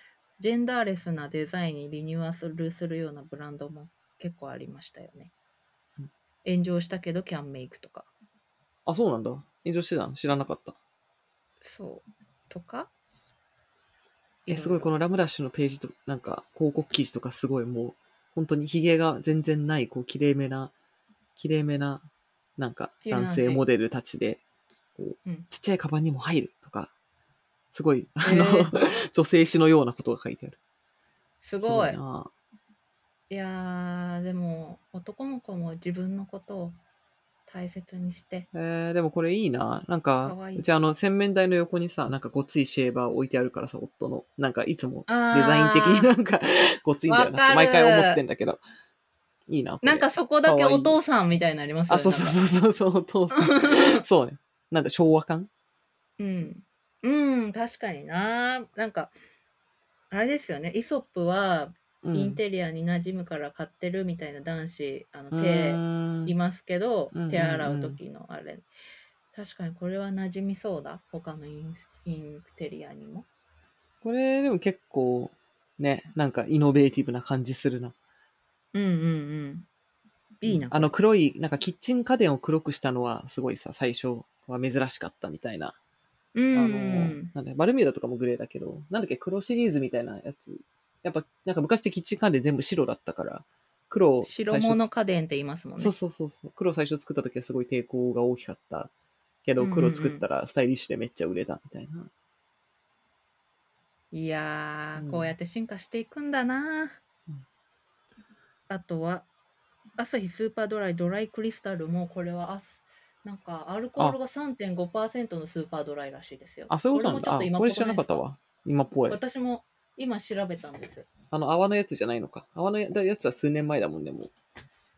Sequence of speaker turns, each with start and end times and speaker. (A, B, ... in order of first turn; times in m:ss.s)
0:00.4-0:05.3 A
0:06.4-0:08.1 A
0:08.9-0:10.8 B
0:11.6-0:12.9 A
0:14.5-0:14.9 A
0:14.5-0:20.7 B
0:21.4-0:22.0 B
0:22.6-0:24.4 B
0:23.0-0:23.7 A
0:25.0-0:26.9 B
0:27.7-0:30.6 B
0:28.2-0:28.7 A
0:31.4-0:32.0 A
0:31.6-0:32.3 B
0:33.3-0:36.8 A
0:37.5-0:38.5 A
0:38.5-0:48.6 B
0:40.2-0:40.7 A
0:45.1-0:46.1 A
0:47.1-0:48.2 A
0:49.5-0:51.0 B
0:49.8-0:52.4 A
0:51.9-0:55.5 B
0:53.4-0:54.0 A
0:56.2-0:59.1 A
1:00.1-1:08.7 A
1:02.0-1:02.4 B
1:05.3-1:06.3 B
1:07.1-1:08.0 B
1:09.3-1:13.3 A
1:14.0-1:18.0 B
1:18.7-1:19.7 A
1:20.4-1:21.0 A
1:20.4-1:25.8 B
1:26.4-1:27.3 A
1:26.5-1:34.9 B
1:34.2-1:36.0 A
1:35.8-1:38.9 B
1:39.4-1:42.1 B
1:39.6-1:40.3 A
1:44.1-1:47.0 A
1:45.0-1:45.3 B
1:48.7-1:49.3 A
1:50.0-1:58.2 A
1:56.7-1:59.2 B
1:59.1-2:01.1 A
2:01.3-2:04.3 B